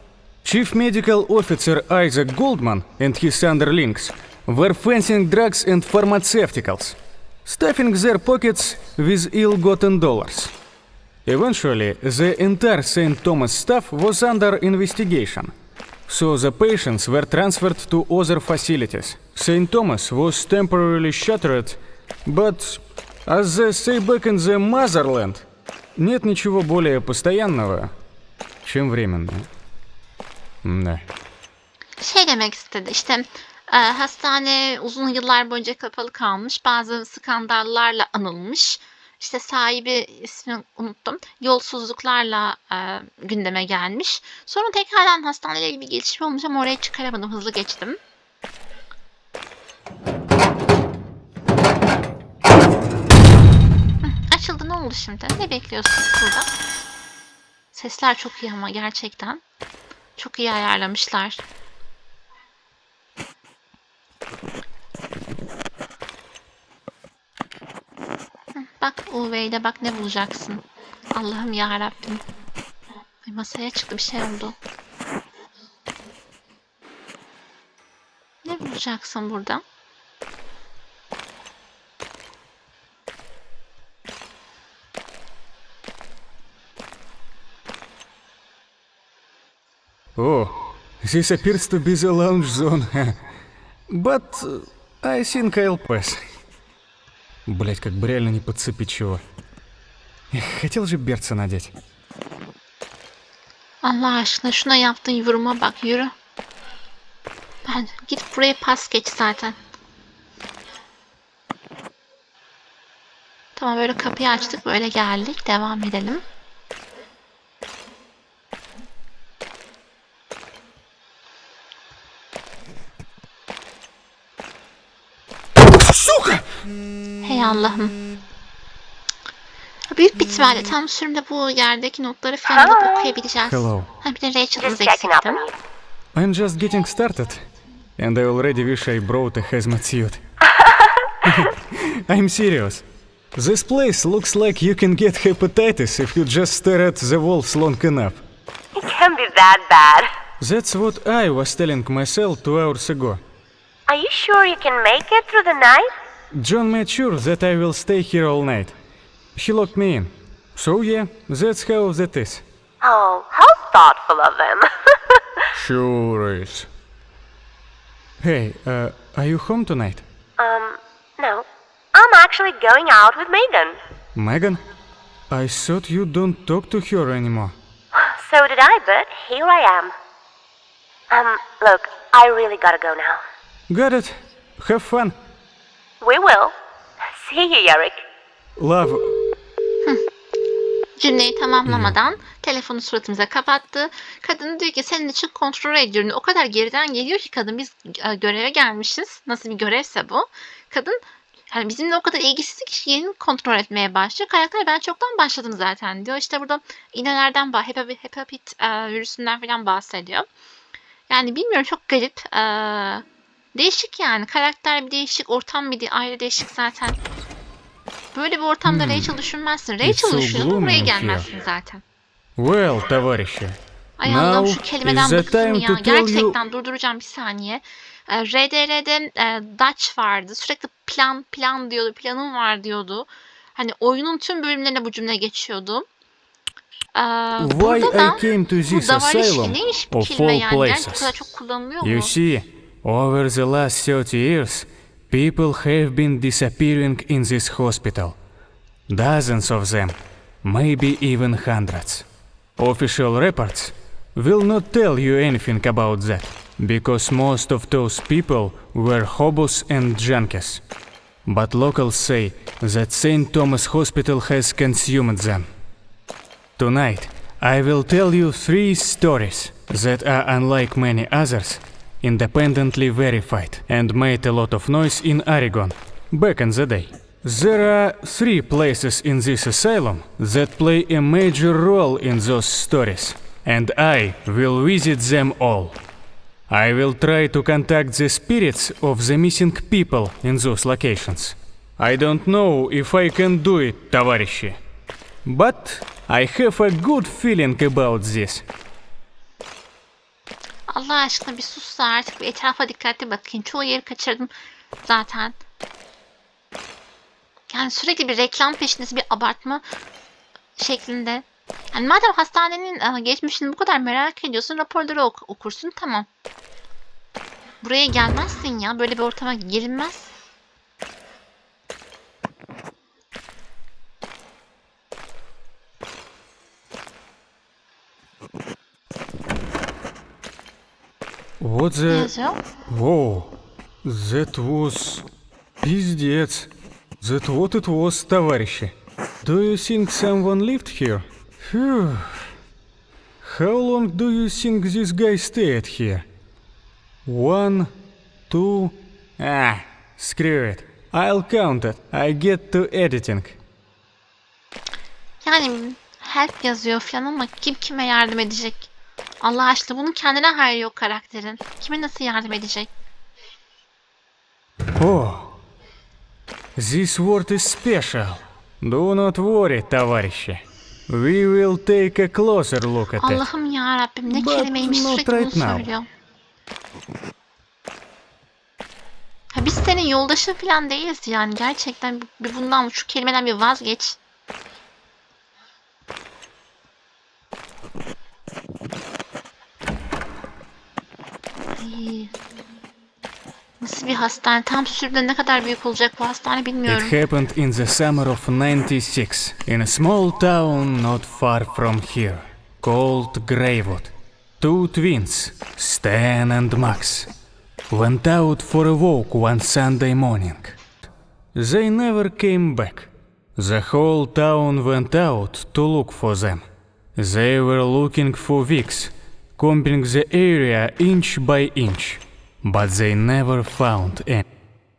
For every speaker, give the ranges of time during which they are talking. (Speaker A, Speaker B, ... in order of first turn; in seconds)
Speaker A: 0.4-10.5, 11.2-15.5, 16.1-27.9, 28.6-29.5, 30.6-31.1, 90.2-93.2, 93.9-96.2, 97.5-99.2, 100.3-101.7, 125.8-126.4, 133.5-133.9, 136.2-137.5, 138.0-140.2, 141.2-148.2, 150.4-153.2, 156.3-158.8, 159.3-162.4, 165.5-166.7, 168.2-170.1, 174.2-174.6, 175.3-177.6, 183.7-185.2, 188.6-189.2, 191.7-192.0, 218.7-219.2, 219.8-221.3, 222.4-226.4, 237.4-241.1, 241.8-248.2, 248.9-252.1, 252.6-260.6, 261.2-265.5, 266.6-285.8, 286.5-294.6, 295.2-298.4, 331.4-332.1, 332.7-333.3, 333.8-335.1, 335.6-336.5, 337.0-342.3, 343.2-346.1, 347.1-347.7, 348.3-353.4, 364.8-365.3, 366.6-373.3, 374.1-375.7, 396.7-407.1, 407.7-410.6, 411.4-424.3
Speaker B: 32.0-48.0, 54.0-56.5, 57.7-59.4, 60.2-61.4, 68.5-72.2, 73.2-74.6, 78.4-79.6, 103.8-106.1, 107.7-109.6, 113.6-116.2, 127.2-128.0, 129.9-135.4, 191.0-201.0, 201.5-210.3, 211.1-213.0, 213.6-217.0, 218.1-221.8, 224.0-235.9, 236.9-242.1, 300.7-304.3, 304.8-305.4, 307.5-309.6, 310.6-316.1, 317.6-320.1, 331.9-332.4, 355.2-358.7, 359.2-362.7, 373.0-375.9, 379.3-384.0, 391.6-392.1, 393.6-397.0
Speaker C: 132.5-133.1, 134.6-135.5, 140.5-141.3, 148.8-150.1, 153.9-155.9, 162.8-165.5, 170.4-173.8, 178.0-179.9, 181.1-183.2, 186.0-188.0